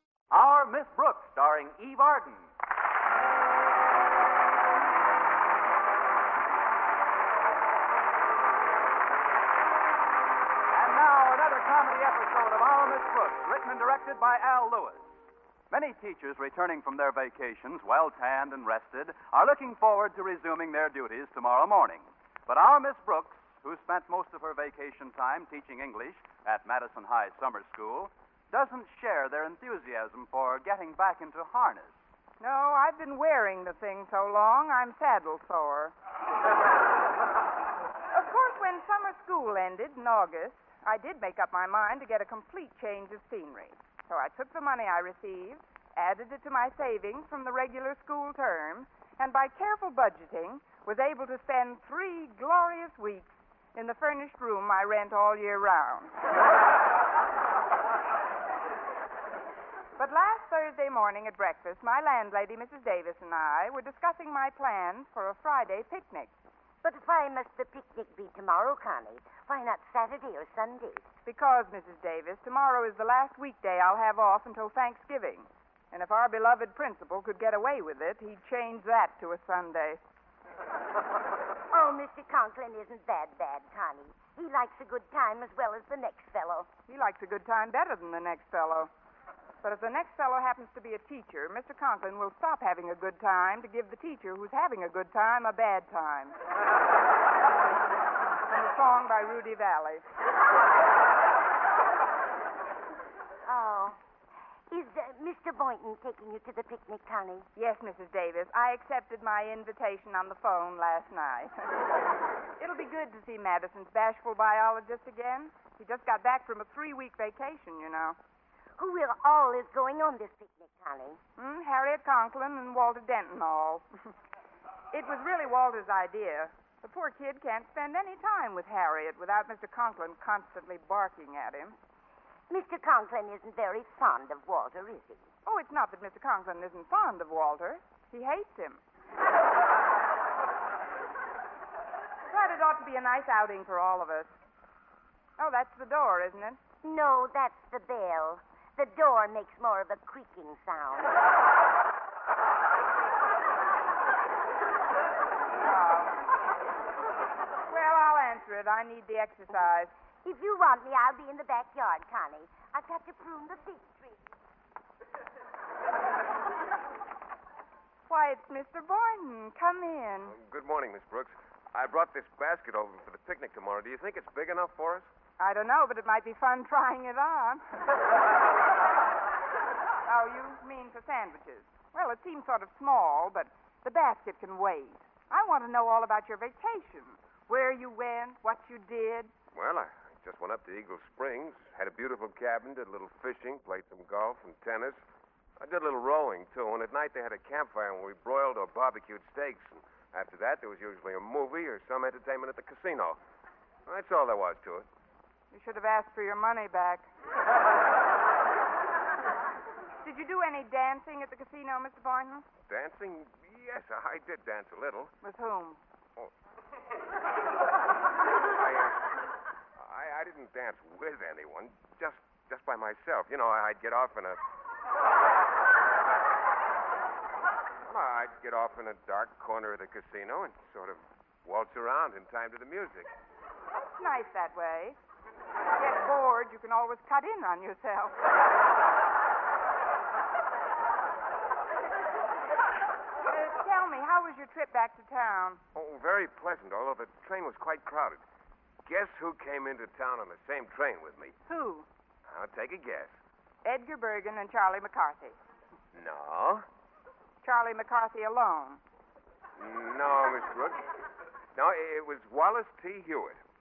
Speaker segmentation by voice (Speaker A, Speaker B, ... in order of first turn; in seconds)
Speaker A: 0.3-2.5, 10.7-32.0
Speaker B: 32.4-35.9, 38.1-56.1, 60.0-66.3, 71.3-80.0, 86.9-88.9, 89.6-96.4, 98.5-100.0, 107.6-111.7, 112.6-118.2, 121.4-123.9, 124.9-131.8, 135.5-138.8, 142.3-144.3, 145.4-146.6, 155.6-156.2, 157.7-159.9, 168.1-170.4, 175.4-178.0, 180.1-189.3, 205.5-207.1, 210.0-212.5, 215.2-215.8, 233.8-235.0, 235.8-238.2, 243.3-245.6, 251.5-251.9, 253.6-255.4, 257.4-258.8
Speaker C: 66.8-71.1, 81.7-86.7, 103.5-104.0, 104.7-107.5, 118.8-121.2, 132.5-135.2, 146.8-151.1, 160.2-164.2
Speaker D: 170.3-175.1, 189.5-195.0, 195.6-203.2, 203.9-204.9, 212.7-215.1, 218.4-219.1, 219.8-224.4, 227.8-233.1, 245.8-248.2, 248.8-251.4, 252.3-253.2, 255.9-256.7, 259.6-260.8, 261.5-263.4